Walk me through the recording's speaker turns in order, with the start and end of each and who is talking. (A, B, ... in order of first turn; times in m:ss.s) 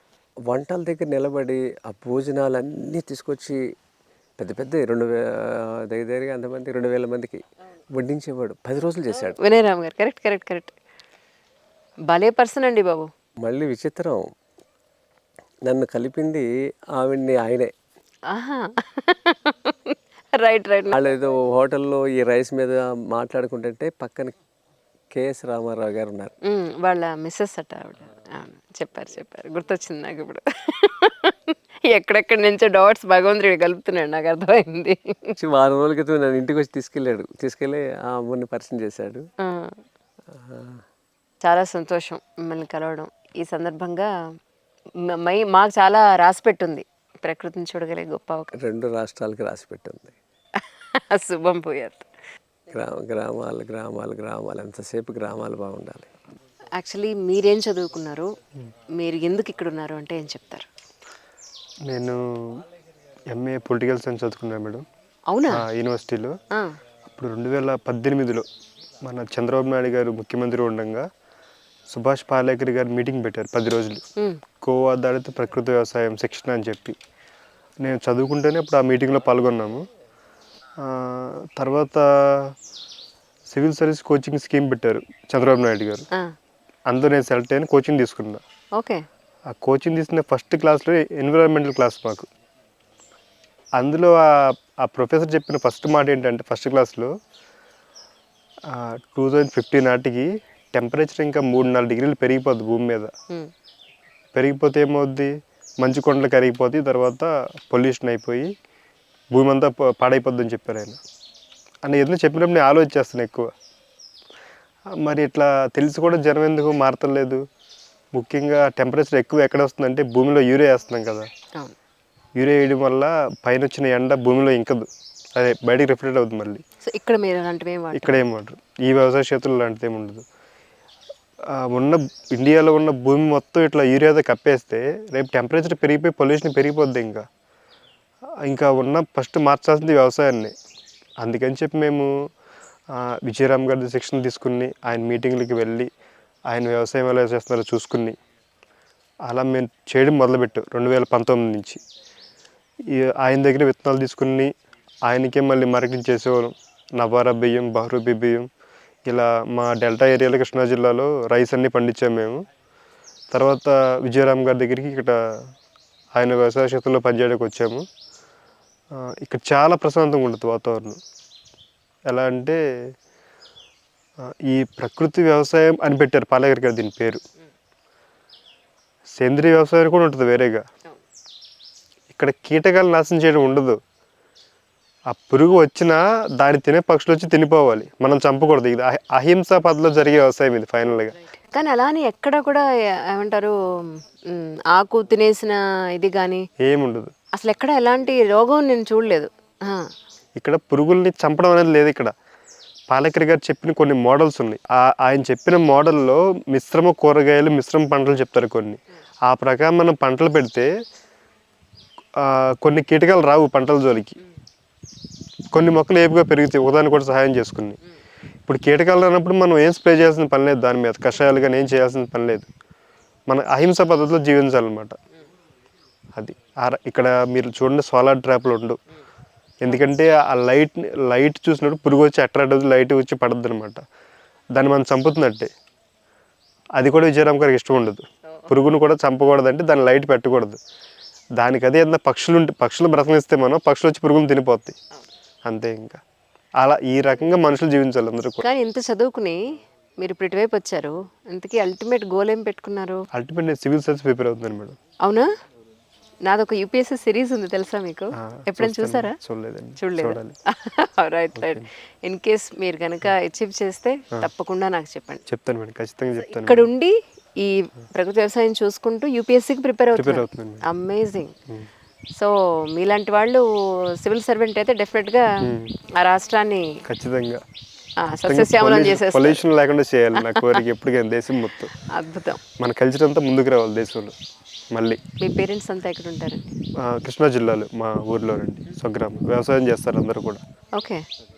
0:00.5-0:03.6 A
0:04.4-0:09.4 A
0:09.2-0:10.7 B
0:12.1-0:13.1 B
0:13.4-0:14.2 A
0:15.7-0:17.7 A
0:18.3-0:21.1 B
0:20.9-0:24.4 A
0:25.1-0:26.3 A
0:26.4-0:35.4 B
0:35.4-0:39.2 A
0:39.4-0:39.8 B
0:40.3-0:40.8 A
0:41.4-0:44.1 B
0:45.0-0:48.5 B
0:48.5-0:50.2 A
0:50.5-0:52.1 B
0:52.7-0:56.1 A
0:56.8-0:58.3 B
0:59.0-1:00.7 B
1:01.8-1:02.6 C
1:03.3-1:04.9 C
1:05.3-1:05.6 B
1:05.5-1:06.4 C
1:06.5-1:06.8 B
1:07.1-1:08.5 C
1:09.0-1:11.1 C
1:11.9-1:14.0 C
1:14.2-1:14.4 B
1:14.6-1:17.0 C
1:17.8-1:19.8 C
1:20.8-1:22.5 C
1:23.5-1:26.1 C
1:26.9-1:28.4 C
1:28.8-1:29.0 B
1:29.5-1:32.3 C
1:33.8-1:37.1 C
1:38.7-1:43.1 C
1:44.3-1:48.5 C
1:49.3-1:51.0 C
1:51.8-1:53.5 C
1:54.9-1:57.4 C
1:58.1-2:01.3 C
2:02.4-2:06.6 C
2:06.8-2:08.2 B
2:07.9-2:10.2 C
2:11.4-2:17.3 C
2:18.4-2:20.5 C
2:21.2-2:22.1 C
2:22.9-2:25.9 C
2:26.5-2:28.2 C
2:29.2-2:31.8 C
2:32.9-2:34.5 C
2:35.0-2:38.5 C
2:39.0-2:42.4 C
2:43.3-2:45.5 C
2:46.1-2:47.8 C
2:48.9-2:51.0 C
2:52.1-2:52.6 C
2:54.2-2:57.2 C
2:59.2-3:00.6 C
3:02.1-3:03.8 C
3:05.1-3:11.2 C
3:11.5-3:16.5 B
3:16.6-3:17.1 C
3:17.3-3:19.9 B
3:20.4-3:22.1 C
3:22.9-3:30.7 C
3:32.2-3:34.2 C
3:35.5-3:37.8 C
3:38.5-3:42.5 C
3:43.3-3:45.0 C
3:46.1-3:48.8 C
3:49.6-3:53.8 C
3:54.5-3:55.5 C
3:56.8-4:00.6 C
4:01.4-4:04.8 C
4:05.4-4:06.0 C
4:06.6-4:08.4 C
4:08.4-4:09.4 B
4:10.0-4:13.1 B
4:13.1-4:14.8 C
4:15.0-4:15.3 B
4:16.2-4:19.2 B
4:18.2-4:20.4 C
4:19.8-4:25.2 B
4:21.3-4:21.7 C
4:25.3-4:26.7 C
4:26.3-4:31.3 B
4:29.9-4:30.6 C
4:32.1-4:35.3 B
4:35.4-4:35.8 C
4:35.9-4:36.8 B
4:36.8-4:37.4 C
4:38.0-4:39.4 B
4:38.2-4:41.7 C
4:40.2-4:40.6 B
4:41.8-4:42.4 B
4:42.5-4:44.1 C
4:44.7-4:45.0 C
4:45.2-4:46.4 B
4:46.8-4:50.4 C
4:50.7-4:51.0 B